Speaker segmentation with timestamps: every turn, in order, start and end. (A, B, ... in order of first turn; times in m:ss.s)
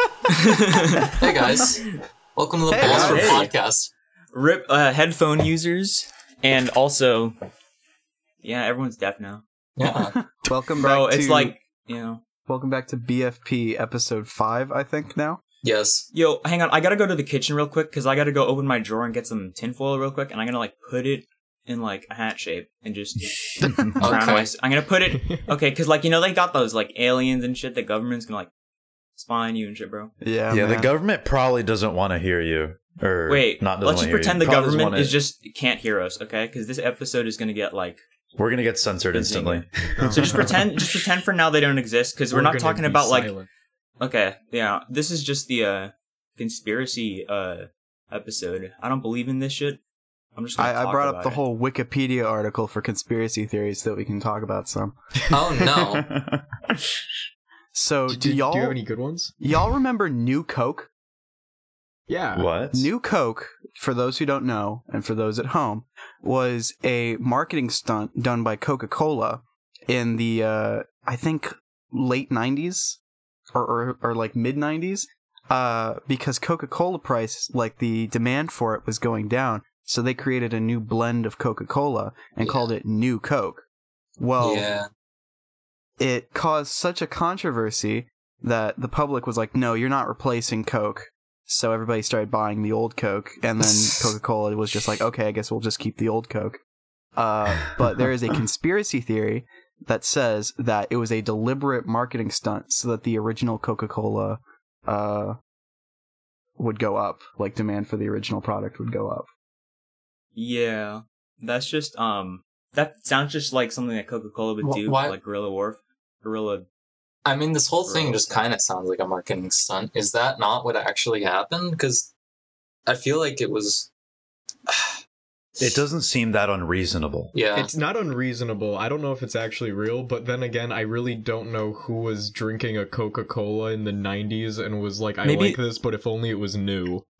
0:00.3-0:01.2 A
0:01.2-0:01.8 B
0:02.4-0:03.9 B
0:02.7-0:03.5 C
0:02.8-0:03.5 A
0:04.3-0:07.4 A
0:08.4-0:09.4 A
0:09.8-0:10.1 B
0:09.9-0:11.5 C
0:10.8-0:12.2 A
0:12.5-0:15.4 C
0:15.6-0:16.1 B
0:16.1-0:28.5 A
0:24.0-0:24.5 B
0:29.2-0:30.1 A
0:30.2-0:30.9 C
0:30.5-0:35.2 D
0:33.3-0:38.0 A
0:38.4-0:40.6 D
0:39.1-0:43.3 A
0:40.0-0:40.7 E
0:42.3-0:43.5 E
0:44.0-0:49.8 A
0:50.3-0:51.4 A
0:50.6-0:55.0 C
0:55.3-0:56.0 B
0:55.6-0:57.0 D
0:57.7-0:58.8 C
0:58.1-0:59.4 E
0:59.4-1:00.9 C
1:02.1-1:02.6 E
1:02.3-1:02.9 D
1:02.7-1:13.0 C
1:13.5-1:23.6 C
1:22.4-1:22.7 B
1:24.2-1:24.7 C
1:24.4-1:24.8 B
1:26.0-1:36.6 C
1:37.2-1:45.4 C
1:46.6-1:49.3 C
1:50.3-1:56.7 A
1:54.6-1:55.2 B
1:57.2-2:02.1 B
1:57.9-1:58.4 A
2:02.9-2:03.9 B
2:04.7-2:05.0 B
2:05.6-2:07.3 D
2:07.3-2:07.7 B
2:07.5-2:17.1 E
2:15.2-2:15.6 A